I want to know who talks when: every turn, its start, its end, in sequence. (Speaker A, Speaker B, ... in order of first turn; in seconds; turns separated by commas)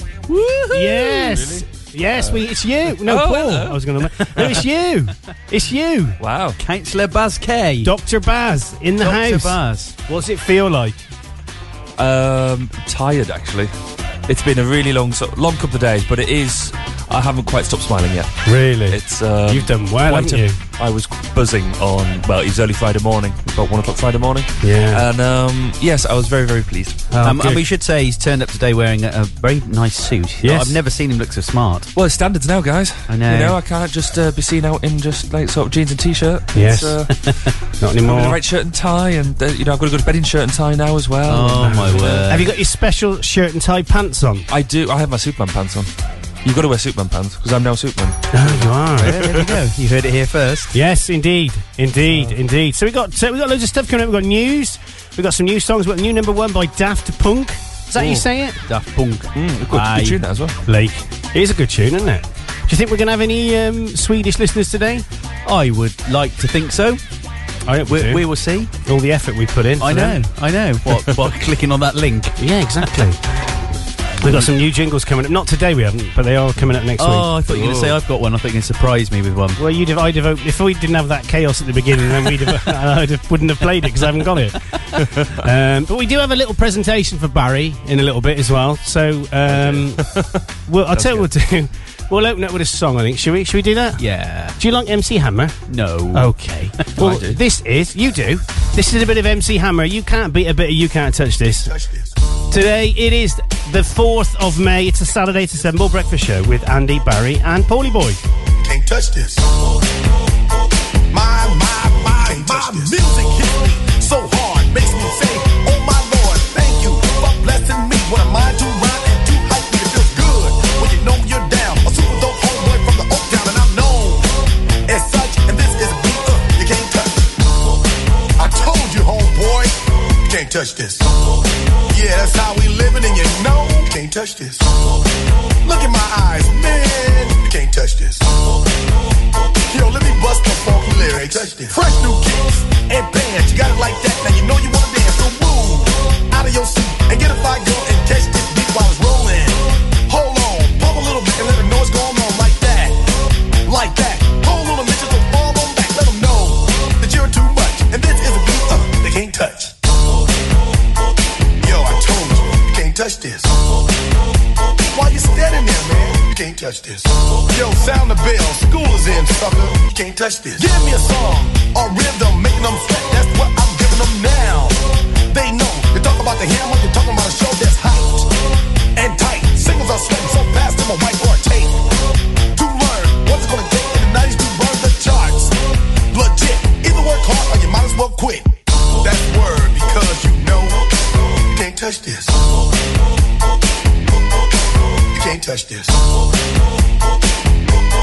Speaker A: 0.3-1.1, Speaker B: 0.7-6.2, Speaker C: 1.1-1.6, Speaker C: 3.0-4.0, Speaker C: 6.2-6.6, Speaker A: 6.6-7.9, Speaker B: 7.8-11.0, Speaker A: 9.0-9.9, Speaker C: 12.0-13.7, Speaker C: 14.3-27.0, Speaker B: 18.4-20.6, Speaker B: 24.6-25.0, Speaker B: 27.1-27.6, Speaker A: 27.2-31.9, Speaker B: 30.4-30.8, Speaker C: 31.9-37.1, Speaker A: 33.1-33.6, Speaker B: 36.5-37.1, Speaker B: 37.8-38.4, Speaker C: 38.0-42.2, Speaker A: 41.3-42.5, Speaker B: 41.7-44.5, Speaker C: 44.5-45.9, Speaker C: 46.4-49.4, Speaker B: 48.3-49.2, Speaker A: 48.9-50.7, Speaker B: 50.7-58.6, Speaker A: 58.0-60.2, Speaker C: 59.3-60.6, Speaker B: 60.6-65.0, Speaker A: 65.4-67.0, Speaker B: 67.7-68.3, Speaker A: 67.8-68.7, Speaker B: 68.8-70.2, Speaker A: 69.8-72.9, Speaker B: 72.4-73.2, Speaker B: 74.2-78.0, Speaker A: 77.0-79.6, Speaker B: 79.6-90.1, Speaker C: 89.5-90.4, Speaker B: 90.7-94.0, Speaker C: 90.9-91.3, Speaker A: 94.0-94.6, Speaker B: 94.6-95.6, Speaker A: 95.7-96.3, Speaker B: 96.1-101.7, Speaker C: 97.0-97.4, Speaker D: 101.6-102.1, Speaker B: 102.5-108.2, Speaker D: 108.6-109.5, Speaker D: 111.1-124.3, Speaker D: 124.9-127.3, Speaker D: 128.4-131.1, Speaker D: 131.9-134.7, Speaker D: 135.6-138.3, Speaker D: 139.7-153.0, Speaker D: 153.6-159.7, Speaker D: 161.6-163.7, Speaker D: 164.8-178.3, Speaker D: 178.9-181.8, Speaker D: 182.5-185.5, Speaker D: 186.1-190.9, Speaker D: 191.5-192.5, Speaker D: 195.1-196.0